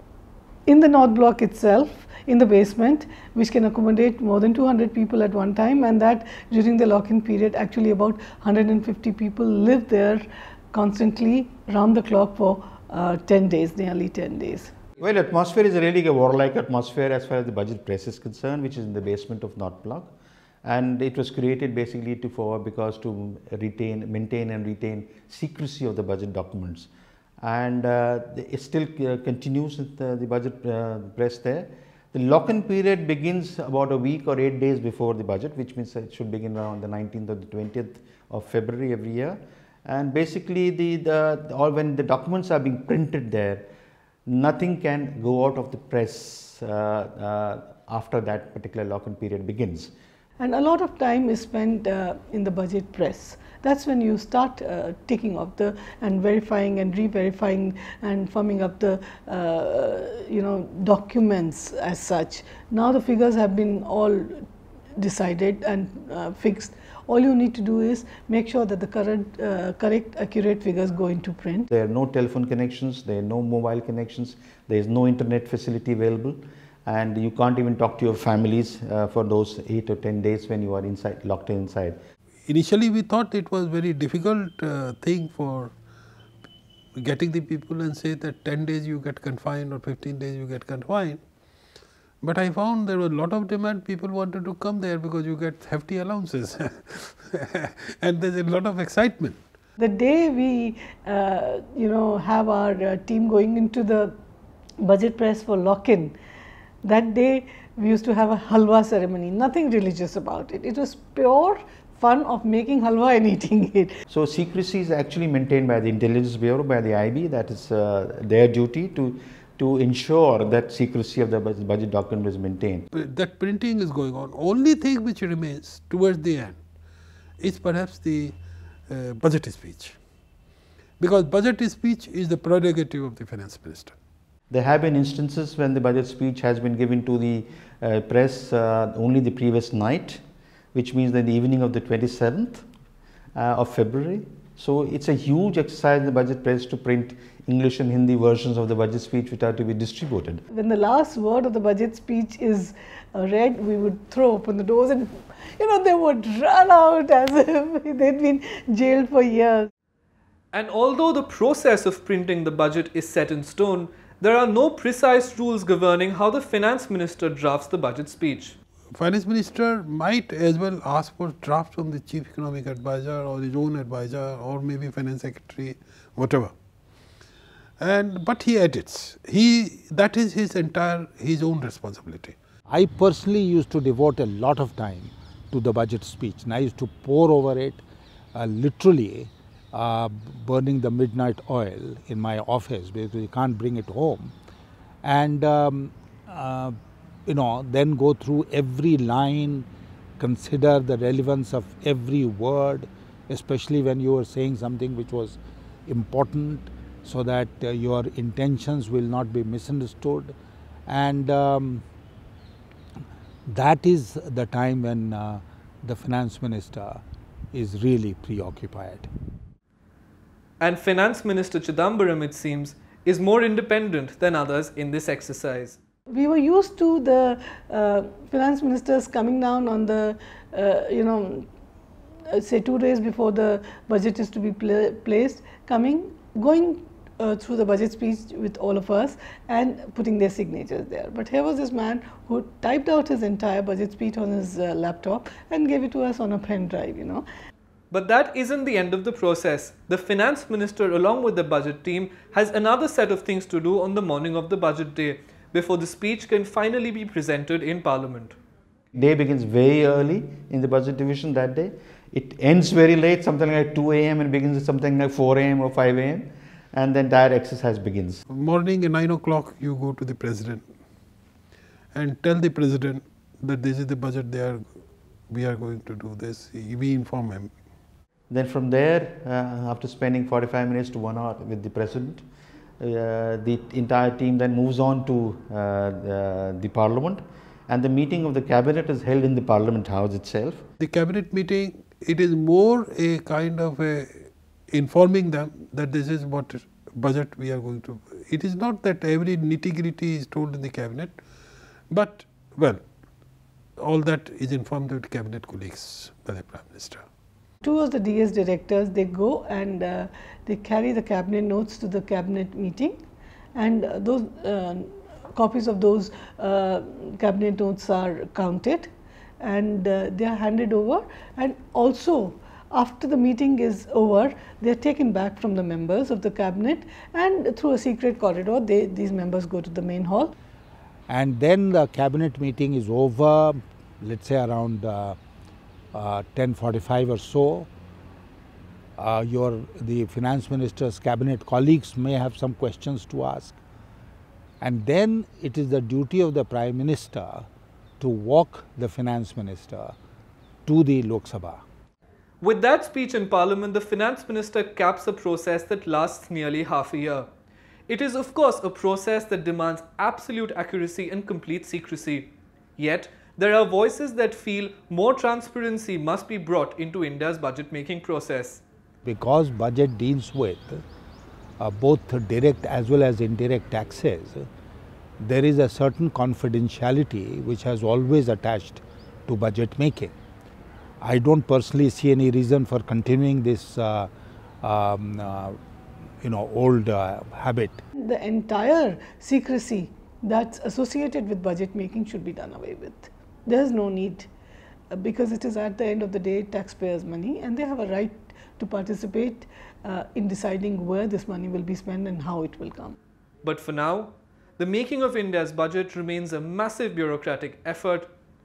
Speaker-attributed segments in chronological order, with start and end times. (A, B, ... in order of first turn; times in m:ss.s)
0:00.6-0:14.7 A
0:15.0-0:20.1 B
0:20.6-0:26.9 B
0:27.4-0:43.7 B
0:44.3-0:49.9 B
0:50.4-1:04.4 A
1:05.0-1:11.7 A
1:11.7-1:22.0 B
1:22.5-1:25.7 C
1:27.0-1:31.2 C
1:32.2-1:39.4 C
1:39.8-1:44.1 A
1:44.8-1:46.1 A
1:46.8-1:53.9 A
1:54.1-2:02.8 B
2:02.9-2:06.6 C
2:07.4-2:10.0 C
2:11.0-2:13.9 C
2:14.5-2:20.2 B
2:20.7-2:22.6 B
2:23.3-2:30.4 B
2:30.5-2:39.7 A
2:40.5-2:48.6 D
2:48.9-2:56.5 C
2:57.8-3:02.3 C
3:02.7-3:14.3 E
3:15.0-3:19.7 E
3:20.2-3:30.3 E
3:30.9-3:31.8 E
3:33.5-3:37.0 E
3:37.5-3:39.1 E
3:40.6-3:45.8 D
3:46.1-3:51.4 A
3:52.3-4:07.2 A
4:07.9-4:18.3 D
4:18.9-4:28.2 B
4:28.3-4:30.7 C
4:31.9-4:34.8 C
4:35.3-4:37.5 C
4:38.3-4:42.2 B
4:42.8-4:50.6 B
4:50.8-5:01.2 C
5:01.9-5:02.8 C
5:03.8-5:07.0 C
5:07.6-5:13.0 A
5:13.5-5:30.3 A
5:31.1-5:35.2 E
5:35.9-5:37.7 E
5:39.0-5:43.6 E
5:44.6-5:47.5 E
5:48.0-5:49.9 E
5:50.6-5:51.6 E
5:52.4-5:57.3 D
5:57.9-6:08.6 D
6:09.0-6:10.8 E
6:11.6-6:14.5 E
6:15.2-6:20.1 E
6:21.0-6:24.1 E
6:24.6-6:25.6 E
6:26.2-6:27.8 E
6:28.0-6:34.3 A
6:34.9-6:43.0 A
6:43.4-6:48.1 D